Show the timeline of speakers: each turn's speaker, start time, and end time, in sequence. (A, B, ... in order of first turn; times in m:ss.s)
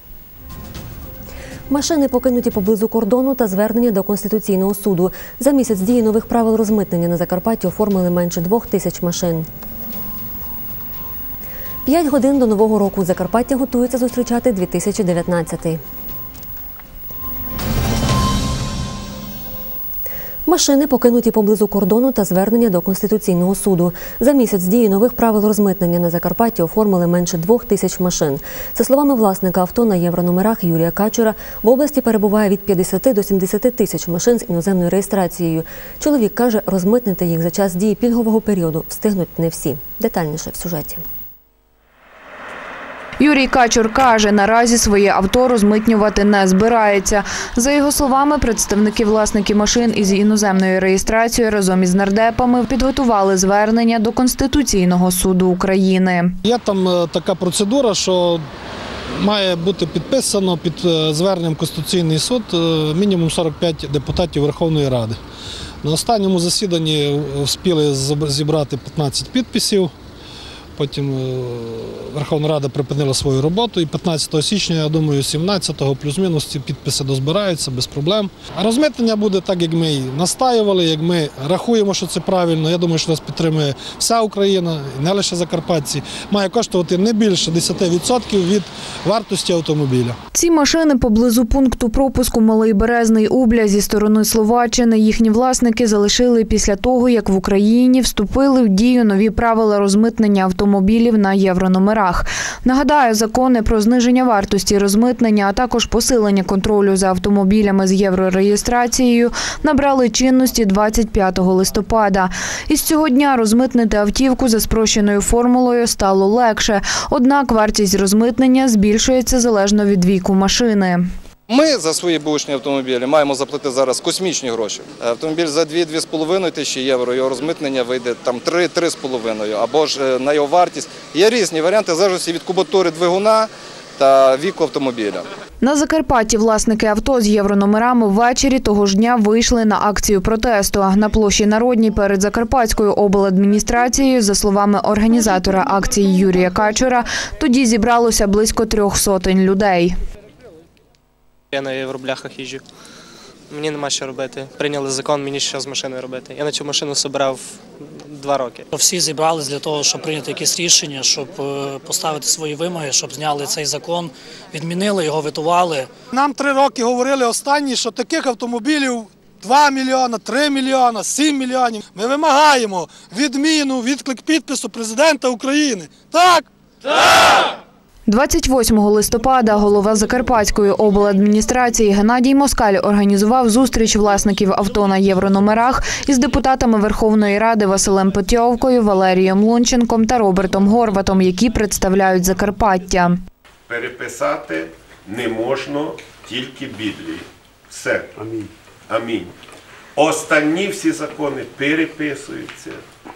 0:01.7-0:09.5 A
0:11.8-0:15.8 A
0:20.4-0:41.0 A
0:43.2-0:56.4 B
0:56.4-0:58.4 C
0:59.2-1:05.2 C
1:05.8-1:09.9 C
1:10.8-1:30.2 C
1:30.3-2:01.0 B
2:01.5-2:15.3 D
2:15.6-2:29.9 B
2:31.5-2:32.6 E
2:33.5-2:38.7 E
2:38.7-2:45.9 F
2:46.1-2:56.5 C
2:58.0-3:13.2 B
3:13.7-3:18.1 G
3:18.9-3:19.3 G
3:20.0-3:22.8 G